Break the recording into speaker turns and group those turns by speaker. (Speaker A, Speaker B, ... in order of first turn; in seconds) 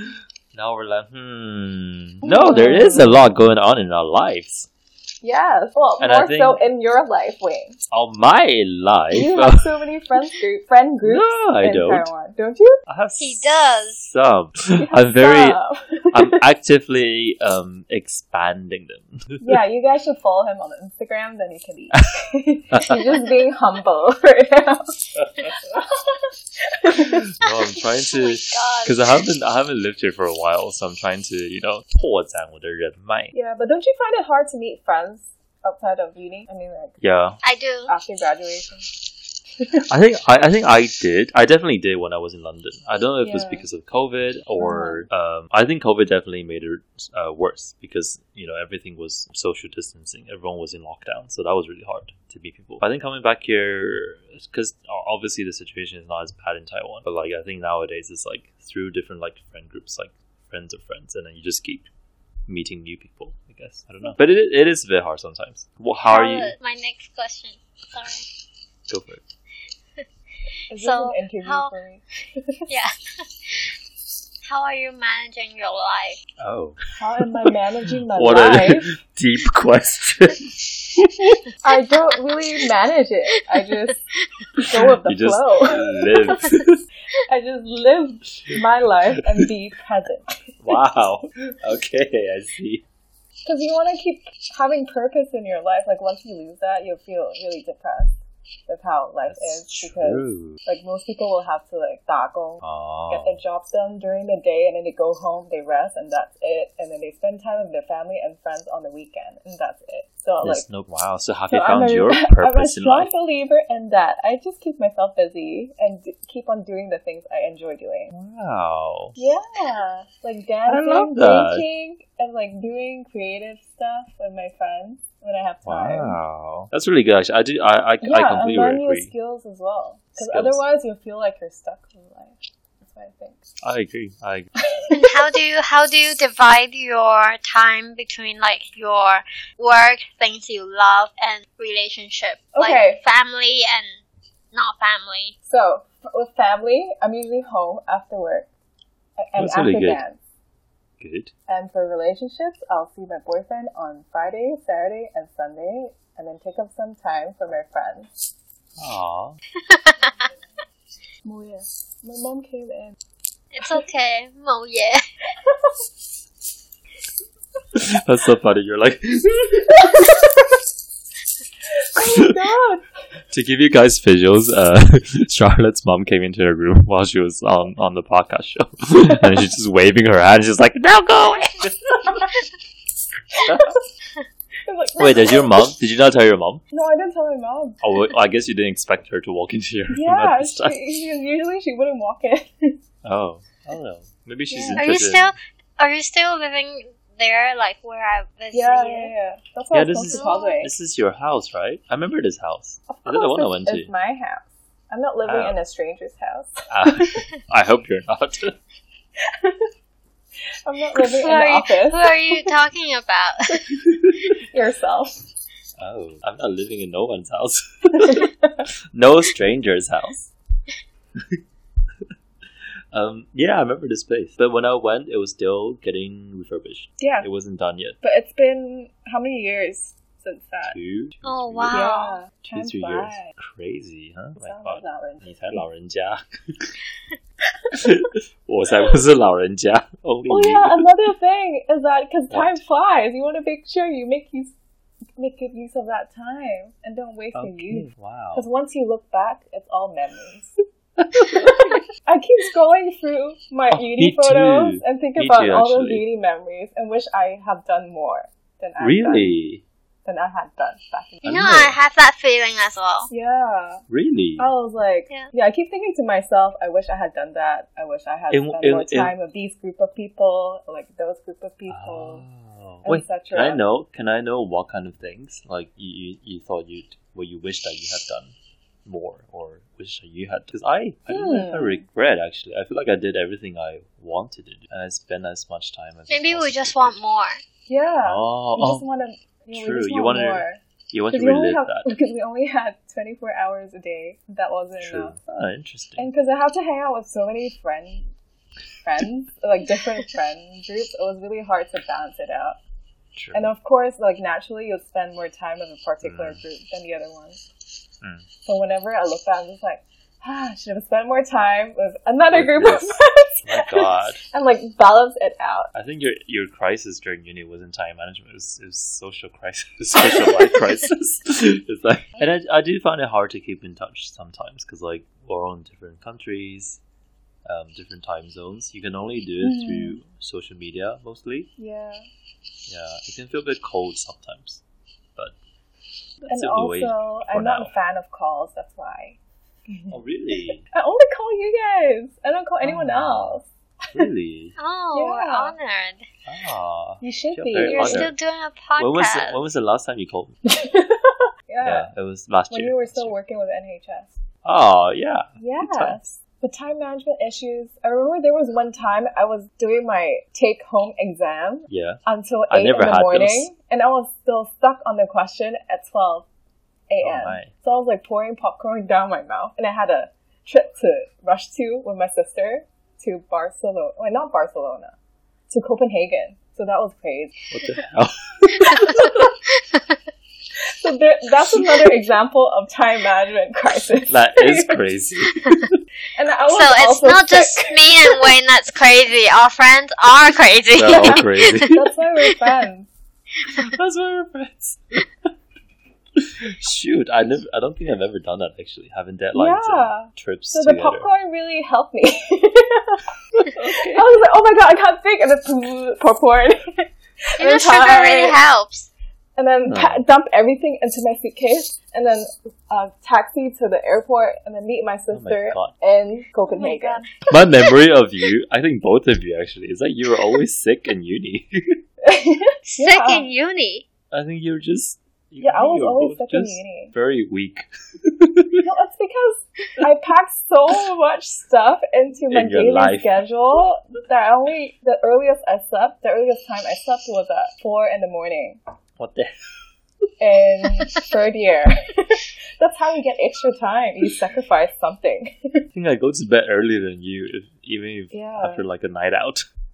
Speaker A: 0.5-4.7, 6.0-6.6, 7.9-9.8, 11.0-12.1, 12.9-13.5, 14.0-15.6, 16.1-19.6, 22.7-23.2, 27.0-33.3, 37.0-37.4, 39.9-61.9, 62.5-66.5, 68.9-69.2, 76.4-77.3, 78.1-81.4, 85.0-86.8, 89.2-89.5, 90.6-92.8, 99.3-100.6, 102.6-103.4, 110.4-113.1, 118.1-119.2, 120.7-121.7, 125.7-129.1, 130.2-130.6, 133.6-134.5, 149.4-150.0, 151.0-151.3, 158.8-159.4, 167.7-170.0, 173.3-182.3, 183.4-183.7, 185.0-186.6, 187.8-190.8, 193.0-195.3, 199.7-203.9, 205.2-205.6, 206.7-208.6, 215.8-218.3, 218.9-220.3, 222.9-228.0, 230.6-231.9, 232.4-236.8, 237.7-240.8, 242.3-242.6, 247.3-248.5, 251.0-251.8, 253.7-256.1, 258.8-259.6, 261.2-261.8, 263.9-264.5, 268.3-269.1, 271.7-278.3, 278.9-287.0, 288.0-288.9, 289.5-291.9, 294.8-296.1, 303.1-303.5, 306.0-306.4, 312.3-314.2, 315.7-326.8, 327.5-331.5, 332.7-334.6, 336.3-337.7, 339.9-340.6, 342.6-343.4, 343.9-344.6, 346.3-348.1, 348.8-350.4, 351.6-353.1, 354.4-356.2, 361.7-363.5, 367.0-367.5, 377.5-379.1, 384.1-385.8, 390.7-391.8, 393.6-394.8, 396.2-401.1, 403.6-404.2, 409.6-410.1, 415.1-415.7, 417.3-421.8, 424.1-428.6, 432.3-433.2, 439.0-439.3, 445.7-449.4
Speaker B: 2.2-3.3, 5.2-7.8, 9.1-12.8, 14.8-16.4, 19.4-27.3, 33.3-37.0, 37.9-38.9, 43.2-43.7, 44.6-45.1, 70.7-72.8, 77.0-78.9, 81.6-84.0, 84.6-86.5, 87.2-90.4, 93.5-110.7, 111.5-118.1, 119.2-126.2, 128.0-133.4, 142.5-143.0, 145.4-148.5, 149.2-150.2, 151.5-158.1, 161.2-163.0, 165.5-165.7, 169.8-170.3, 171.8-172.9, 183.4-183.8, 184.7-185.8, 186.7-187.8, 189.9-192.8, 194.5-194.9, 198.5-200.7, 202.9-207.2, 209.4-209.7, 210.7-212.5, 214.4-215.2, 218.1-218.7, 227.0-227.3, 228.0-230.8, 231.7-233.3, 234.4-235.6, 240.3-244.5, 245.2-250.5, 251.2-259.3, 260.1-261.6, 263.1-263.8, 264.4-272.2, 272.9-273.6, 281.1-281.8, 287.7-295.2, 296.0-298.1, 298.8-302.6, 303.4-307.4, 308.4-315.7, 329.4-330.0, 331.6-332.1, 336.3-339.2, 339.7-340.0, 340.7-344.1, 344.9-345.6, 347.0-348.1, 350.5-351.9, 352.5-354.1, 355.4-366.3, 366.9-374.9, 375.5-377.4, 380.8-384.9, 386.1-388.4, 390.9-392.9, 399.4-403.0, 403.8-408.4, 409.4-417.1, 422.0-423.3, 425.4-426.9, 428.6-438.6, 440.2-445.7, 448.1-448.6
Speaker C: 13.2-14.1, 27.4-29.0, 37.4-37.9, 66.1-68.3, 70.7-71.7, 72.7-72.9, 74.5-76.2, 134.9-143.9, 144.5-145.3, 159.7-160.1, 163.5-165.0, 194.8-199.1, 200.1-200.7, 210.9-213.8, 231.2-232.2, 261.2-263.1, 286.1-287.4, 344.6-346.1, 347.6-349.4, 386.5-392.3, 407.4-408.9, 416.5-417.8, 422.7-423.9